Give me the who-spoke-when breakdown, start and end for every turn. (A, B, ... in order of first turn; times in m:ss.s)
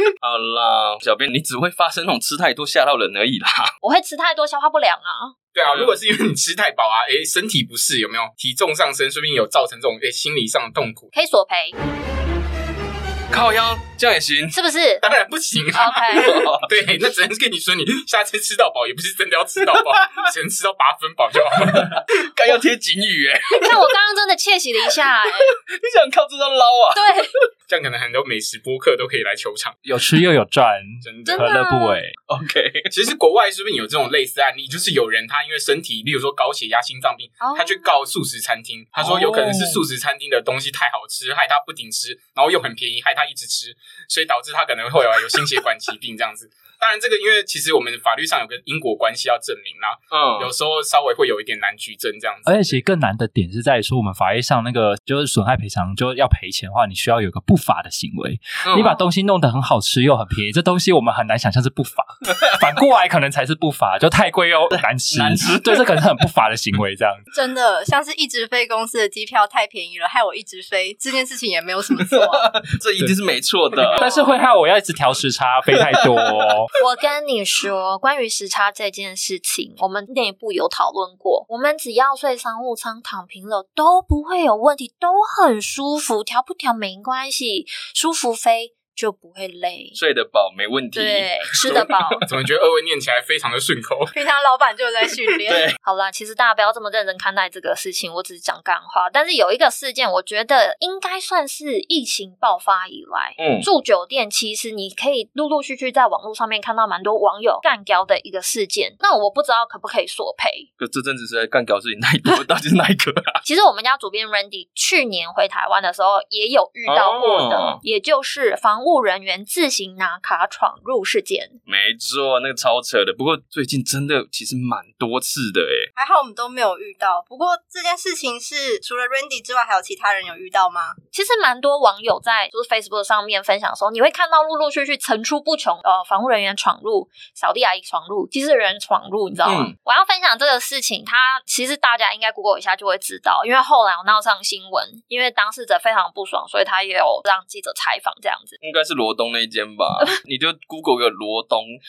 0:00.2-0:03.8 A
0:03.8-0:05.4 B
0:05.5-0:11.1 C
0:05.7-0:06.0 A
0:11.1-0:11.8 B
0:13.3-0:14.6 A
0:14.5-0:15.0 B
0:15.0-0:22.0 C
0:15.7-0:16.4 B
0:16.1-0:16.7 A
0:21.6-0:23.9 A
0:23.5-0:25.6 B
0:24.9-0:27.2 A
0:27.0-0:27.3 B
0:27.7-0:29.8 C
0:29.8-0:32.2 D
0:31.0-0:31.5 C
0:31.3-0:32.0 B
0:32.3-0:32.9 A
0:32.9-0:52.8 C
0:37.4-0:37.9 B
0:39.0-0:39.8 A
0:50.1-0:50.5 A
0:52.5-1:07.2 D
0:58.6-0:58.9 A
1:04.7-1:06.0 A
1:07.3-1:12.5 E
1:12.0-1:14.0 A
1:13.9-1:16.7 D
1:13.9-1:14.4 B
1:16.8-1:30.0 B
1:29.9-1:32.2 A
1:31.0-1:32.2 B
1:32.3-1:34.1 C
1:34.1-1:35.7 E
1:35.4-1:35.8 A
1:35.8-1:50.7 B
1:43.4-1:43.7 A
1:50.8-1:53.4 A
1:53.4-2:01.6 B
1:56.9-1:57.8 A
2:01.7-2:05.9 A
2:06.0-2:11.0 E
2:11.1-2:28.6 B
2:19.4-2:19.7 A
2:28.6-2:31.8 A